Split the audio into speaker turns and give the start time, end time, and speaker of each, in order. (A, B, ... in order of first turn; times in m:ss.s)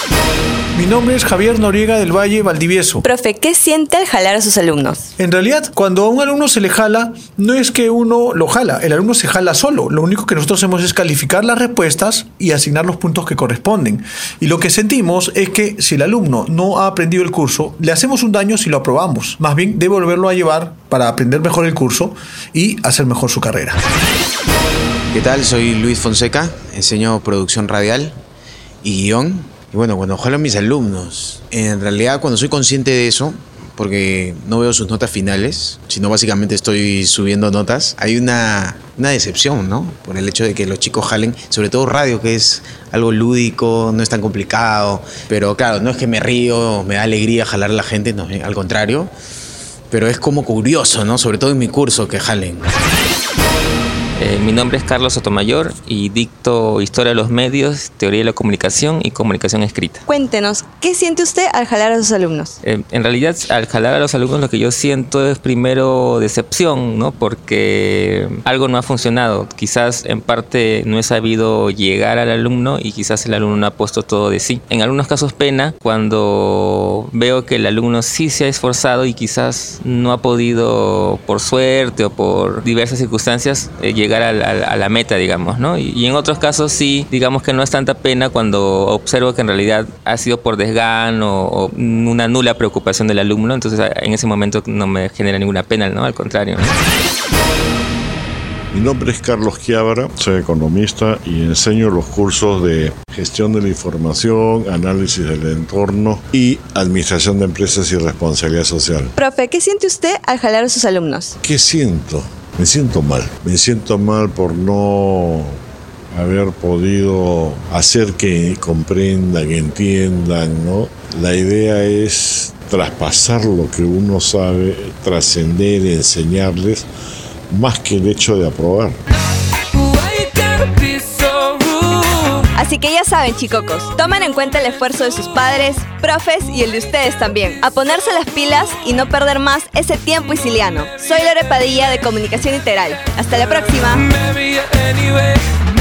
0:00.8-0:03.0 A
0:03.0-0:05.1 B
0:05.2-0:23.8 A
0:25.1-0:28.2 C
0:28.8-0:49.1 C
0:49.9-0:52.7 C
0:54.2-1:00.0 D
1:00.1-1:02.6 B
1:02.6-1:36.8 D
1:38.7-1:49.1 E
1:49.2-1:51.4 B
1:51.4-1:55.6 E
1:56.1-2:06.9 E
2:07.5-2:09.0 E
2:12.6-2:24.1 B